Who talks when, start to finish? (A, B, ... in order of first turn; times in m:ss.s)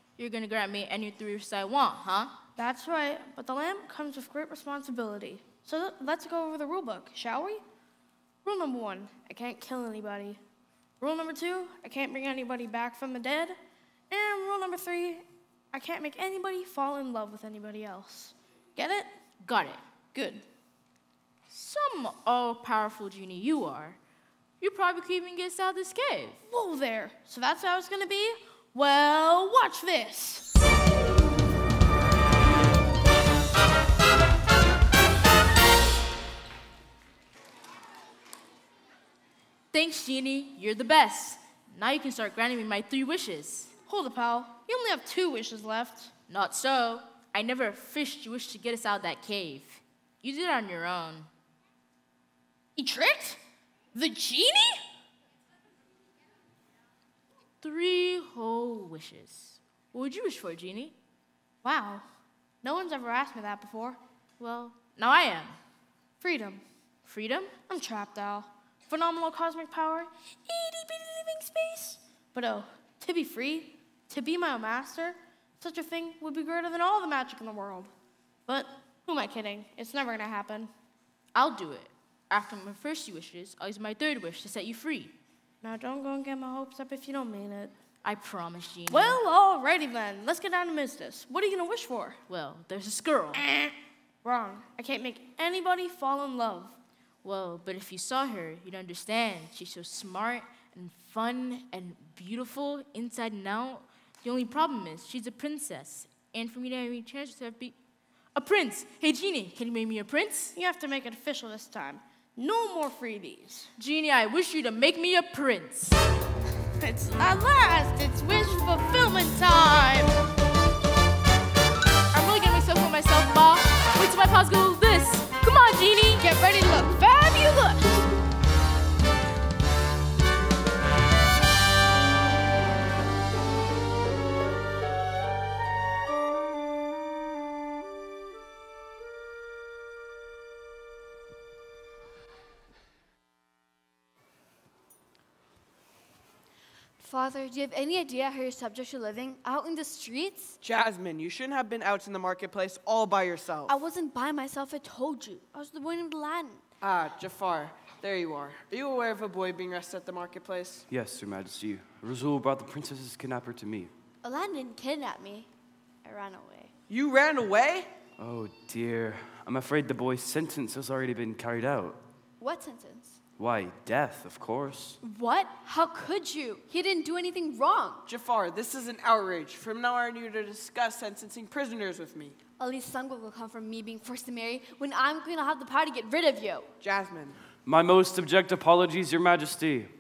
0:00.2-0:02.4 A
0:02.6-0:07.6 B
0:08.4-0:10.4 B
0:11.0-0:13.6 B
0:14.1-0:19.1 B
0:19.4-0:19.8 A
0:20.1-0:20.4 B
0:21.5-0:24.0 A
0:24.6-0:26.4 A
0:26.5-0:30.5 B
0:39.7-0:43.7 A
0:43.9-0:46.1 B
0:46.3-0:51.3 A
0:52.8-0:53.4 B
0:53.9-0:54.8 B
0:57.6-1:01.0 A
1:01.6-1:02.1 B
1:02.6-1:04.0 B
1:04.4-1:05.6 A
1:06.2-1:06.6 B
1:07.1-1:07.5 A
1:07.7-1:17.9 B
1:18.5-1:20.7 B
1:21.3-1:25.1 A
1:25.6-1:27.7 B
1:28.0-1:29.2 A
1:28.9-1:32.2 B
1:32.3-1:33.4 A
1:33.4-1:33.7 B
1:34.2-1:36.8 B
1:37.2-1:47.8 A
1:48.4-1:50.5 A
1:50.6-1:53.7 B
1:53.8-1:56.0 A
1:56.8-2:00.2 B
2:02.1-2:06.2 A
2:06.2-2:08.1 B
2:27.0-2:30.6 C
2:30.6-2:33.8 D
2:33.7-2:36.6 C
2:36.8-2:40.9 D
2:40.9-2:43.9 E
2:44.2-2:45.5 C
2:46.0-2:46.7 C
2:46.9-2:47.9 D
2:48.2-2:52.0 E
2:52.4-2:53.2 C
2:53.4-2:55.0 E
2:55.0-2:58.1 C
2:58.1-3:02.4 D
3:02.6-3:06.7 C
3:06.8-3:07.4 D
3:07.6-3:09.9 E